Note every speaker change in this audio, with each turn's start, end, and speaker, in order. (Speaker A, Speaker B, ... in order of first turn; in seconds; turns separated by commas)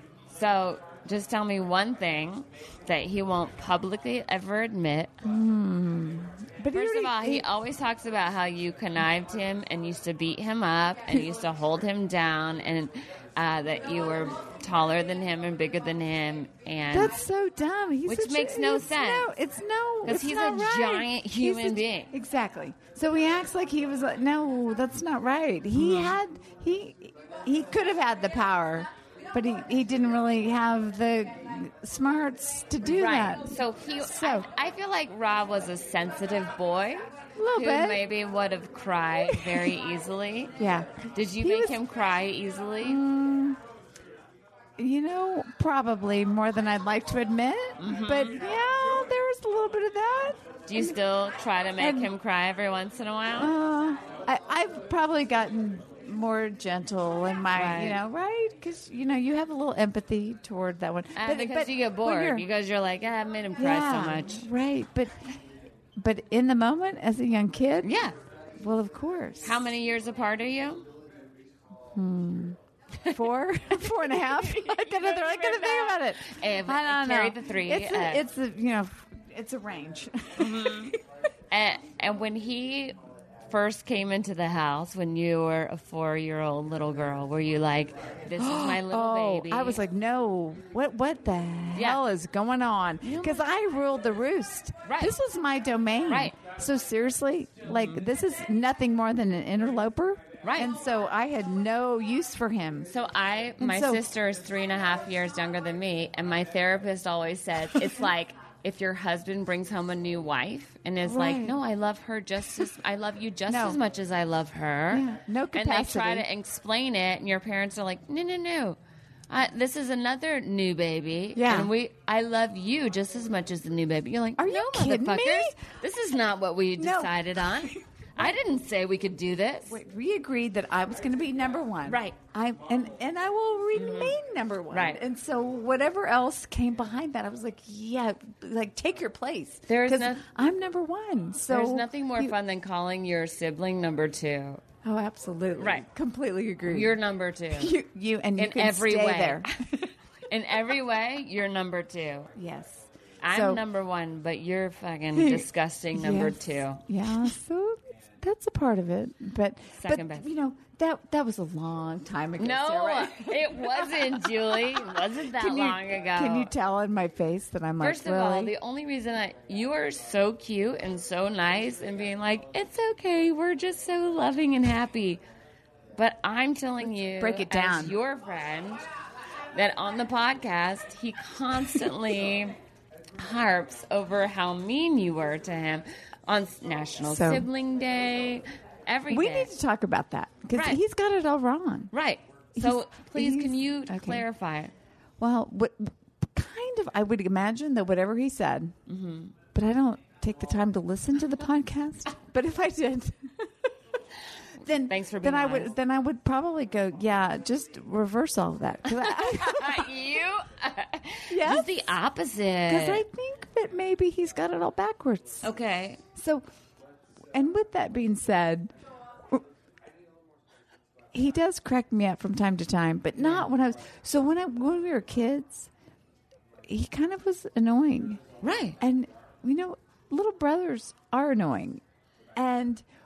Speaker A: 0.3-5.1, Speaker B: 5.2-7.4, Speaker A: 6.7-17.1, Speaker B: 16.9-34.5, Speaker A: 18.1-19.3, Speaker A: 20.0-22.1, Speaker A: 25.8-26.1, Speaker A: 32.8-37.0, Speaker B: 37.4-38.0, Speaker A: 37.5-40.5, Speaker B: 39.3-39.6, Speaker B: 40.6-41.8, Speaker A: 41.1-43.0, Speaker B: 42.8-43.6, Speaker B: 44.8-51.0, Speaker A: 47.8-48.4, Speaker A: 50.7-53.5, Speaker B: 51.8-52.1, Speaker B: 53.4-62.4, Speaker A: 57.5-58.0, Speaker A: 61.1-64.5, Speaker B: 63.6-65.2, Speaker B: 66.0-67.9, Speaker A: 67.8-68.1, Speaker B: 68.6-69.6, Speaker A: 69.4-70.9, Speaker B: 71.9-72.6, Speaker B: 73.1-80.9, Speaker A: 73.8-78.2, Speaker A: 80.4-80.9, Speaker A: 81.5-83.0, Speaker A: 83.5-89.8, Speaker B: 88.3-102.9, Speaker A: 91.7-92.0, Speaker A: 93.0-93.4, Speaker A: 94.8-95.1, Speaker A: 96.1-96.3, Speaker A: 97.7-98.0, Speaker A: 100.4-100.7, Speaker A: 102.9-118.8, Speaker B: 103.6-104.0, Speaker B: 111.0-111.5, Speaker B: 113.5-113.8, Speaker B: 114.9-116.2, Speaker A: 119.3-129.8, Speaker B: 121.3-121.7, Speaker B: 124.4-125.6, Speaker B: 126.8-128.3, Speaker B: 129.7-142.3, Speaker A: 131.9-132.2, Speaker A: 133.7-134.1, Speaker A: 134.7-135.0, Speaker A: 139.7-140.2, Speaker A: 141.5-144.6, Speaker B: 144.8-146.9, Speaker A: 145.6-145.8, Speaker A: 146.7-147.7, Speaker B: 147.5-149.9, Speaker A: 148.4-149.5, Speaker A: 150.3-152.3, Speaker B: 152.3-153.6, Speaker A: 153.2-156.8, Speaker B: 155.1-164.6, Speaker A: 159.8-160.3, Speaker A: 162.4-166.5, Speaker B: 165.3-168.5, Speaker A: 167.8-175.2, Speaker A: 175.9-178.8, Speaker B: 176.8-177.9, Speaker A: 179.5-182.6, Speaker A: 183.2-189.5, Speaker B: 187.0-187.5, Speaker B: 189.1-191.9, Speaker A: 190.5-190.8, Speaker A: 191.9-194.7, Speaker B: 192.6-194.2, Speaker B: 195.2-198.7, Speaker A: 198.9-199.3, Speaker B: 199.5-203.3, Speaker B: 204.6-209.9, Speaker A: 204.8-205.7, Speaker A: 208.9-213.0, Speaker B: 211.3-211.7, Speaker B: 212.7-215.5, Speaker A: 215.4-216.0, Speaker B: 216.1-216.4, Speaker B: 217.3-218.7, Speaker B: 221.1-225.7, Speaker A: 223.2-223.5, Speaker B: 226.7-228.2, Speaker A: 228.4-228.8, Speaker B: 228.8-231.8, Speaker B: 232.3-232.8